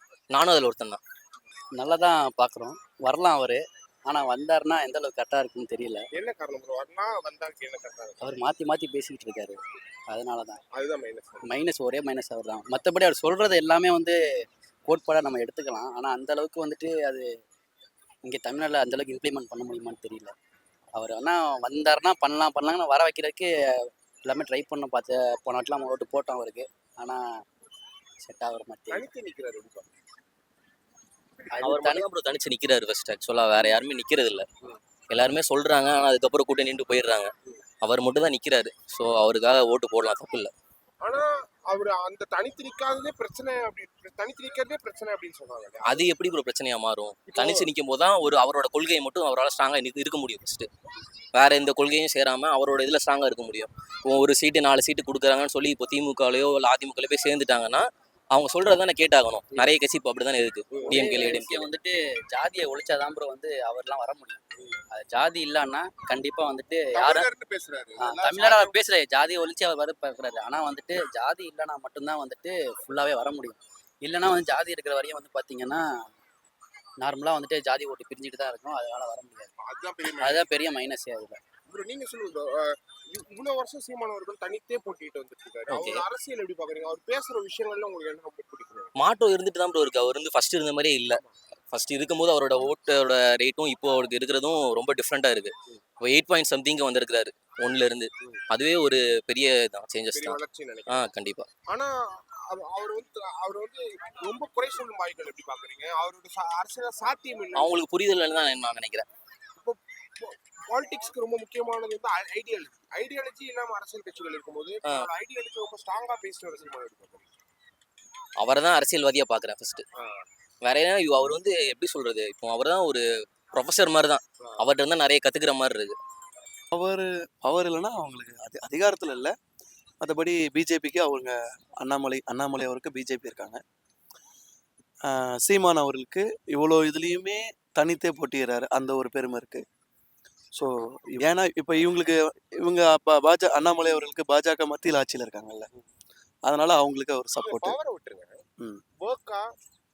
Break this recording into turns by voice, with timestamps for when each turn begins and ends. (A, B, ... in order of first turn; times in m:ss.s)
0:00.3-0:01.0 A
0:01.8-0:06.1 B
0:06.1-0:08.2 C
0:08.2-0:09.6 B
0:10.1-0:10.6 B
0:10.7-0:11.4 C
0:11.4-0:14.1 B
0:14.9-0:17.2 B
0:18.2-0:20.3 B
0:21.0-0:23.5 B
0:24.2-0:27.2 B
0:28.2-0:29.0 B
0:28.9-0:29.9 C
0:31.5-0:32.0 B
0:31.6-0:34.4 A
0:35.1-0:37.3 A
0:37.8-0:40.5 A
0:41.0-0:46.1 C
0:45.8-0:50.7 A
0:47.3-0:47.7 C
0:51.3-1:01.7 A
1:00.7-1:01.0 C
1:00.9-1:04.4 B
1:04.9-1:07.3 B
1:06.9-1:08.8 C
1:08.0-1:15.8 B
1:17.0-1:19.5 B
1:19.6-1:20.5 C
1:20.1-1:21.4 B
1:21.7-1:28.9 C
1:25.7-1:26.0 A
1:29.0-1:31.2 A
1:31.7-1:41.5 A
1:40.1-1:41.1 C
1:41.7-1:47.8 C
1:47.6-1:49.1 A
1:49.6-1:57.3 C
1:58.4-1:59.8 A
2:00.0-2:00.3 C
2:00.6-2:03.0 A
2:03.5-2:06.0 A
2:04.4-2:04.7 C
2:06.7-2:09.3 D
2:10.0-2:13.6 D
2:15.1-2:19.6 D
2:20.5-2:25.7 D
2:26.5-2:27.8 D
2:27.4-2:28.4 C
2:29.0-2:29.5 C